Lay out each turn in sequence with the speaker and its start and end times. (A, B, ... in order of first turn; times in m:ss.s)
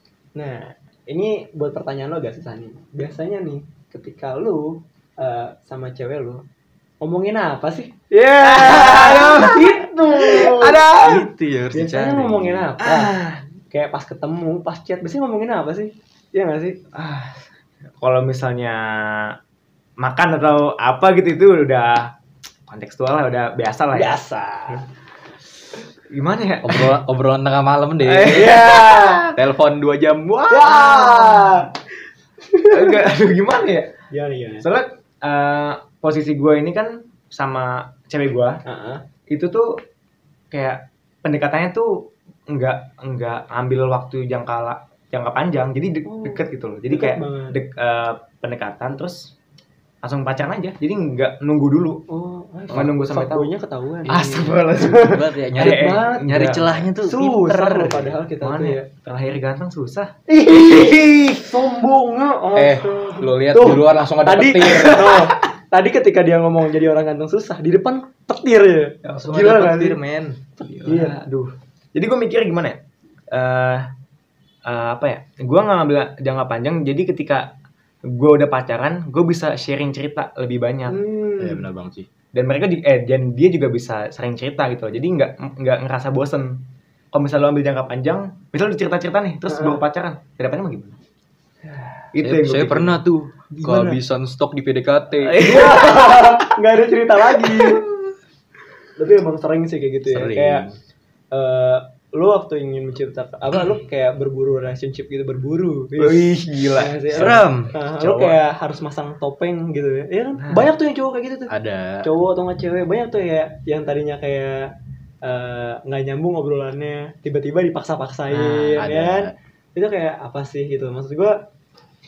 0:00.4-0:06.4 A
0:07.0-0:10.8 A
0:08.4-0:11.2 B
0:10.3-0:12.7 C
0:11.7-0:13.2 A
0:12.8-0:13.4 B
0:13.7-0:16.8 A
0:16.9-0:17.4 B
0:18.0-0:19.4 B
0:20.0-0:22.1 B
0:22.7-0:24.2 B
0:23.9-0:24.8 A
0:26.1-0:27.0 B
0:26.6-0:30.8 C
0:28.0-0:29.4 B
0:28.3-0:29.3 A
0:30.5-0:31.7 A
0:30.7-0:31.6 B
0:32.5-0:32.9 A
0:32.7-0:33.9 B
0:34.1-0:34.7 A
0:34.6-0:38.6 B
0:38.6-0:39.0 A
0:39.3-0:39.7 B
0:40.5-0:49.3 B
0:46.0-0:47.6 A
0:50.0-0:52.0 B
0:52.1-0:55.0 A
0:52.7-0:53.5 B
0:54.1-0:56.9 B
0:54.9-0:57.6 C
0:55.6-0:58.9 A
0:57.5-1:01.6 B
1:00.3-1:10.0 A
1:02.6-1:05.3 C
1:09.1-1:10.4 C
1:10.6-1:12.8 B
1:10.7-1:11.2 A
1:13.3-1:13.9 B
1:14.7-1:17.5 B
1:18.0-1:21.0 B
1:20.9-1:21.7 A
1:21.4-1:22.1 C
1:22.3-1:26.6 B
1:27.1-1:31.0 B
1:29.5-1:29.8 A
1:32.1-1:33.0 B
1:32.2-1:35.6 C
1:33.5-1:34.0 A
1:35.2-1:36.5 B
1:35.4-1:37.9 A
1:37.5-1:37.9 B
1:39.0-1:40.6 A
1:40.1-1:40.8 C
1:41.3-1:51.5 A
1:46.0-1:47.0 B
1:47.1-1:48.4 C
1:50.4-1:50.7 B
1:51.5-1:52.1 C
1:52.0-1:54.7 A
1:55.2-2:01.4 A
1:58.4-1:59.3 C